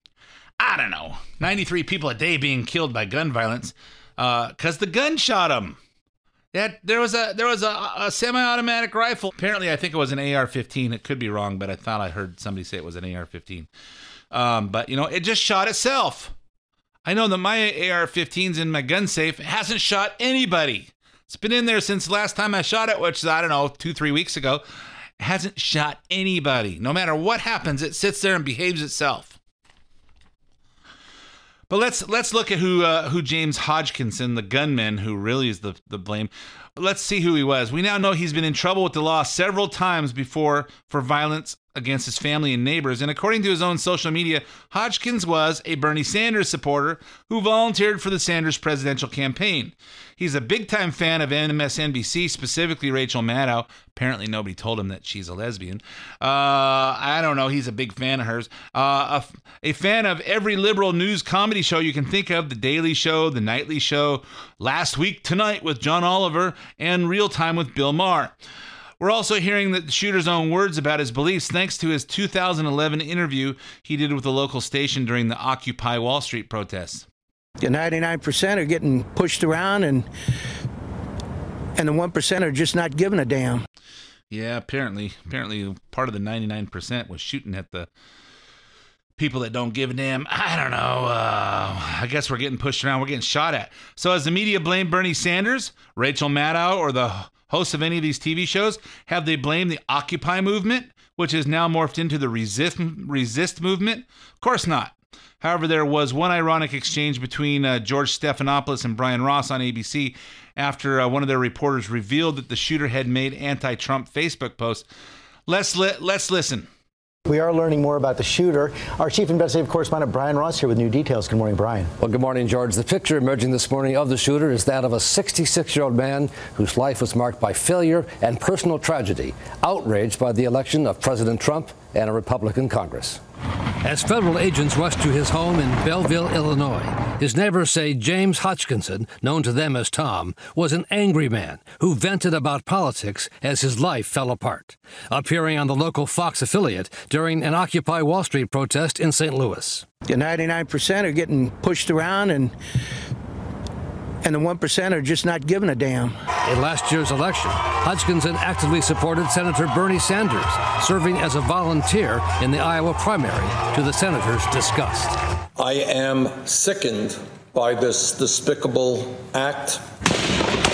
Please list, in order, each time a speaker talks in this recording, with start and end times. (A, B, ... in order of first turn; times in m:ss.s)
0:00.6-0:05.8 A
0:06.5-0:13.7 A
0:14.3-0:16.3 A
0:17.0-0:24.6 A
0:25.2-0:29.4 A
0:31.7-1:08.3 A
1:09.0-1:17.0 A
1:17.6-1:20.1 B
1:21.8-1:23.6 B
1:24.3-1:27.9 A
1:29.2-1:54.9 A
1:55.5-1:56.7 A
1:57.3-2:01.9 C
2:02.0-2:13.2 D
2:13.8-2:29.9 D
2:30.1-2:32.6 B
2:34.2-2:36.2 B
2:36.4-2:45.1 D
2:45.6-2:49.9 E